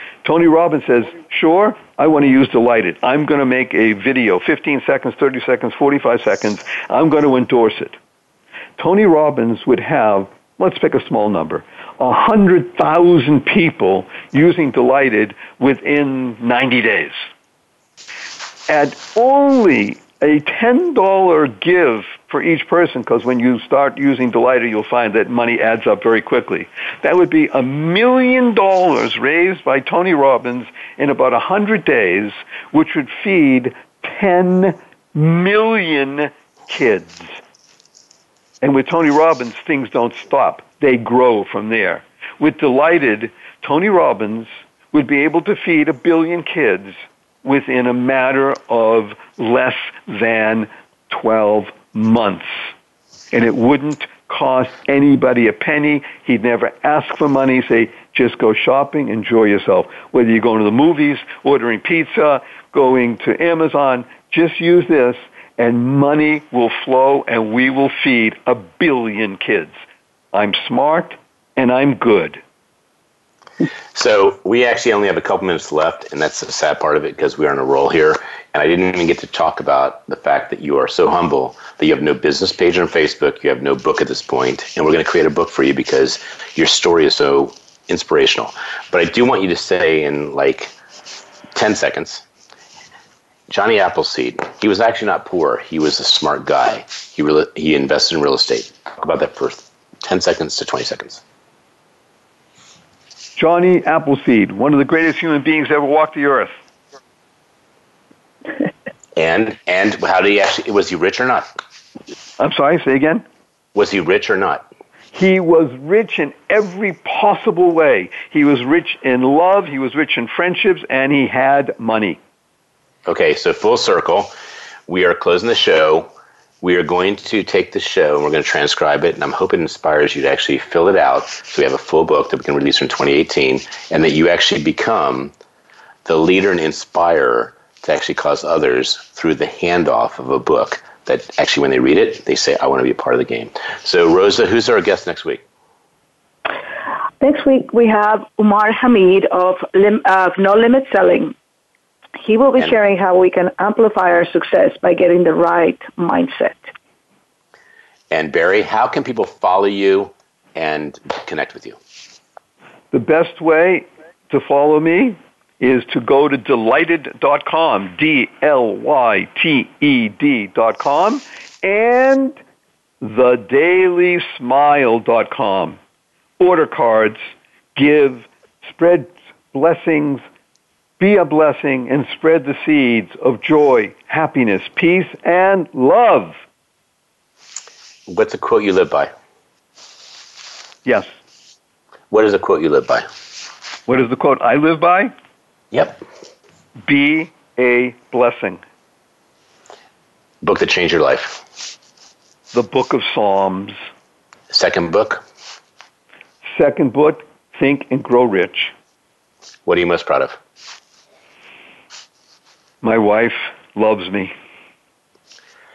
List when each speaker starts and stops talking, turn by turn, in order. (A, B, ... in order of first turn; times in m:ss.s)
0:00.2-0:08.0 A
0:08.8-0:17.2 A
0:18.7-0:37.4 A
0:38.6-0:52.5 A
0:53.3-1:09.7 A
1:10.3-1:12.4 A
1:13.9-1:30.7 B
1:31.5-1:32.2 B
1:33.5-1:41.2 B
1:43.4-1:46.5 A
1:49.2-1:51.5 B
1:52.4-1:53.2 A
1:53.7-1:54.7 B
1:55.1-2:02.2 A
2:03.0-2:04.3 B
2:04.9-2:06.1 B
2:06.6-2:15.3 B
2:16.0-2:25.4 B
2:27.2-2:31.3 C
2:32.2-2:36.7 C
2:38.1-2:41.8 B
2:42.9-2:52.4 A
2:53.0-2:55.8 A
2:56.4-3:00.2 A
3:01.0-3:06.4 A
3:08.1-3:09.1 B
3:10.8-3:11.1 A
3:12.1-3:13.1 B
3:13.9-3:15.1 A
3:15.7-3:16.0 B
3:16.8-3:18.6 A
3:20.4-3:21.4 B
3:22.5-3:23.7 A
3:24.5-3:25.2 B
3:26.5-3:28.7 A
3:29.6-3:30.4 B
3:32.8-3:34.3 A